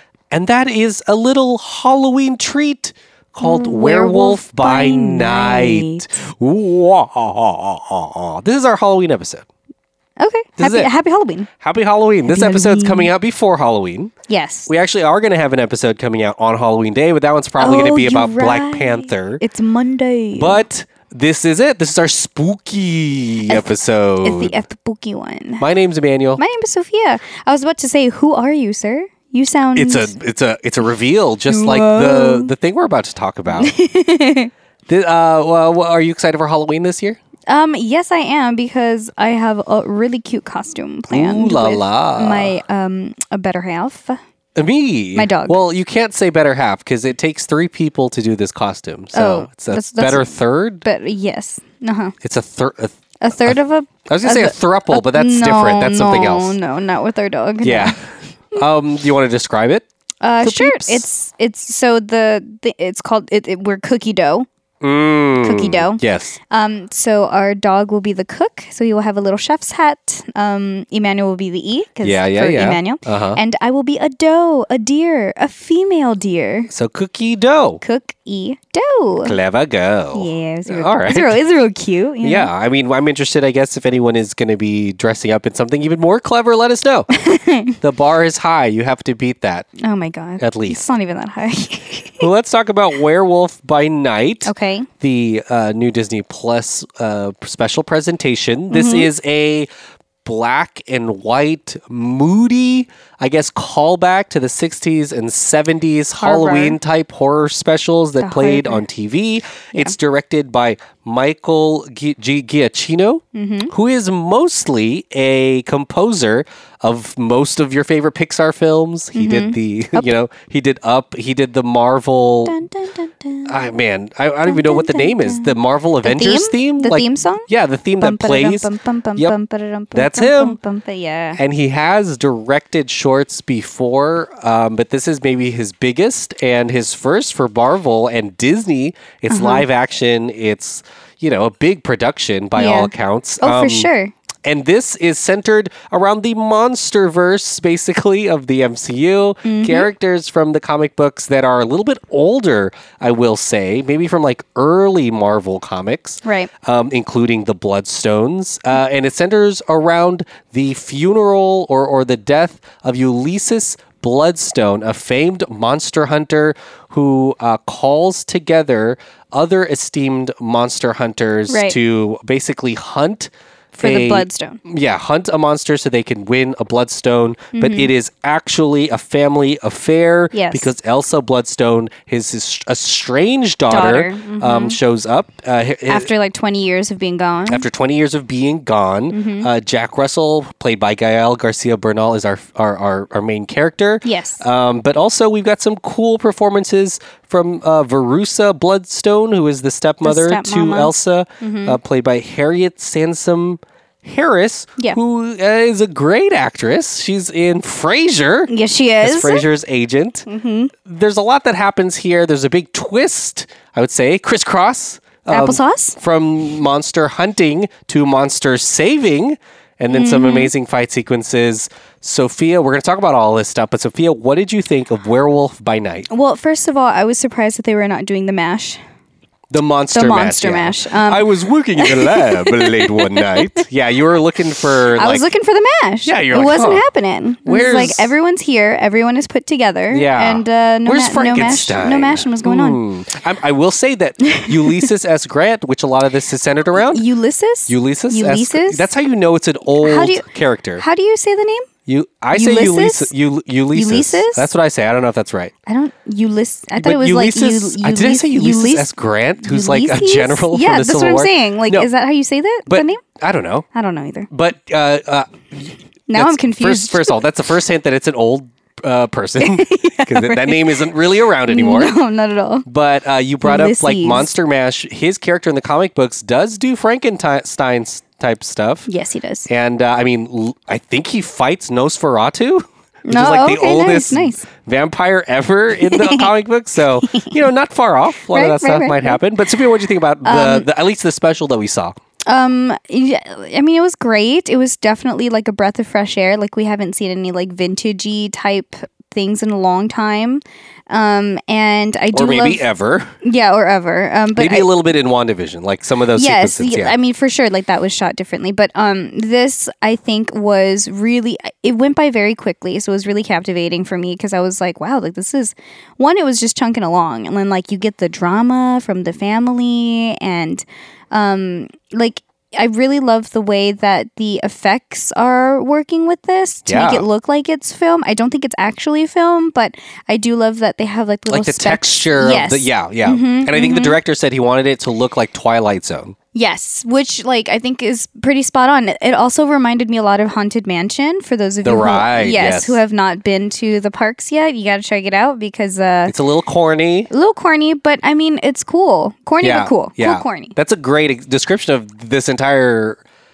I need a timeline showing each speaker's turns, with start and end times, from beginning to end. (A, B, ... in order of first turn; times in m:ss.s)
0:00.3-0:09.4 A
0:03.4-0:06.1 B
0:10.2-0:11.5 B
0:10.6-0:10.9 A
0:11.6-0:14.1 A
0:12.3-0:13.1 B
0:14.3-0:14.7 B
0:14.7-0:19.4 A
0:17.6-0:20.6 B
0:20.4-0:24.6 A
0:23.5-0:25.7 B
0:25.6-0:26.4 A
0:26.4-0:30.2 B
0:29.8-0:33.8 A
0:31.5-0:32.5 B
0:33.5-0:34.5 B
0:34.9-0:37.2 A
0:37.5-0:44.2 B
0:41.1-0:42.6 A
0:44.6-0:50.8 A
0:45.2-0:45.6 B
0:49.1-0:52.2 B
0:52.2-0:56.6 A
0:53.2-0:58.0 B
0:57.6-0:59.9 A
1:00.2-1:04.5 B
1:00.4-1:01.1 A
1:04.8-1:06.4 A
1:05.4-1:16.7 B
1:12.0-1:13.4 A
1:16.7-1:17.8 A
1:17.8-1:19.4 B
1:19.2-1:21.4 A
1:20.1-1:22.5 B
1:22.2-1:27.1 A
1:27.1-1:27.8 B
1:27.8-1:29.7 A
1:29.8-1:32.3 B
1:30.4-1:30.8 A
1:32.2-1:39.7 A
1:34.4-1:34.9 B
1:38.7-1:39.1 B
1:40.2-2:02.6 A
1:46.2-1:46.8 B
1:48.2-1:48.9 B
1:53.3-1:53.7 B
1:59.2-2:00.1 B
2:02.5-2:03.8 B
2:03.5-2:09.4 A
2:04.5-2:07.5 B
2:08.0-2:11.4 B
2:09.9-2:10.6 A
2:11.4-2:23.9 A
2:19.3-2:19.6 B
2:22.6-2:24.1 B
2:24.4-3:06.1 A
2:29.4-2:29.9 B
2:36.2-2:36.5 B
2:51.5-2:51.8 B
2:53.8-2:54.6 B
2:57.6-2:57.9 B
3:00.3-3:00.7 B
3:03.7-3:04.8 B
3:05.9-3:07.6 B
3:07.5-3:28.5 A
3:09.1-3:09.5 B
3:14.0-3:14.4 B
3:20.0-3:21.8 B
3:28.5-3:29.4 B
3:29.0-3:30.3 A
3:30.3-3:30.7 B
3:30.8-3:46.1 A
3:35.3-3:36.0 B
3:39.9-3:40.5 B
3:46.1-3:48.8 B
3:49.5-3:55.3 A
3:49.9-3:53.6 B
3:55.0-4:02.8 B
3:56.1-3:56.8 A
3:57.5-3:58.1 A
3:59.9-4:07.0 A
4:04.2-4:04.9 B
4:06.7-4:08.9 B
4:07.7-4:10.8 A
4:09.8-4:10.3 B
4:10.8-4:11.7 B
4:11.9-4:15.5 A
4:12.3-4:13.1 B
4:13.7-4:14.5 B
4:15.7-4:23.0 B
4:16.8-4:21.9 A
4:22.7-4:23.7 A
4:23.7-4:24.3 B
4:24.3-4:32.0 A
4:26.1-4:27.2 B
4:29.4-4:30.9 B
4:31.4-4:32.7 B
4:32.7-4:38.9 A
4:33.4-4:34.3 B
4:38.9-4:39.5 B
4:39.5-4:52.0 A
4:43.1-4:44.4 B
4:45.8-4:46.3 B
4:47.0-4:47.4 B
4:48.3-4:49.2 B
4:50.2-4:50.7 B
4:52.3-5:02.7 B
5:02.1-5:03.2 A
5:03.2-5:04.7 B
5:04.4-5:07.0 A
5:06.2-5:34.0 B
5:26.7-5:27.1 A
5:31.3-5:36.2 A
5:36.3-5:46.2 B
5:41.6-5:42.8 A
5:46.1-5:47.1 A
5:47.1-5:50.6 B
5:49.4-5:53.0 A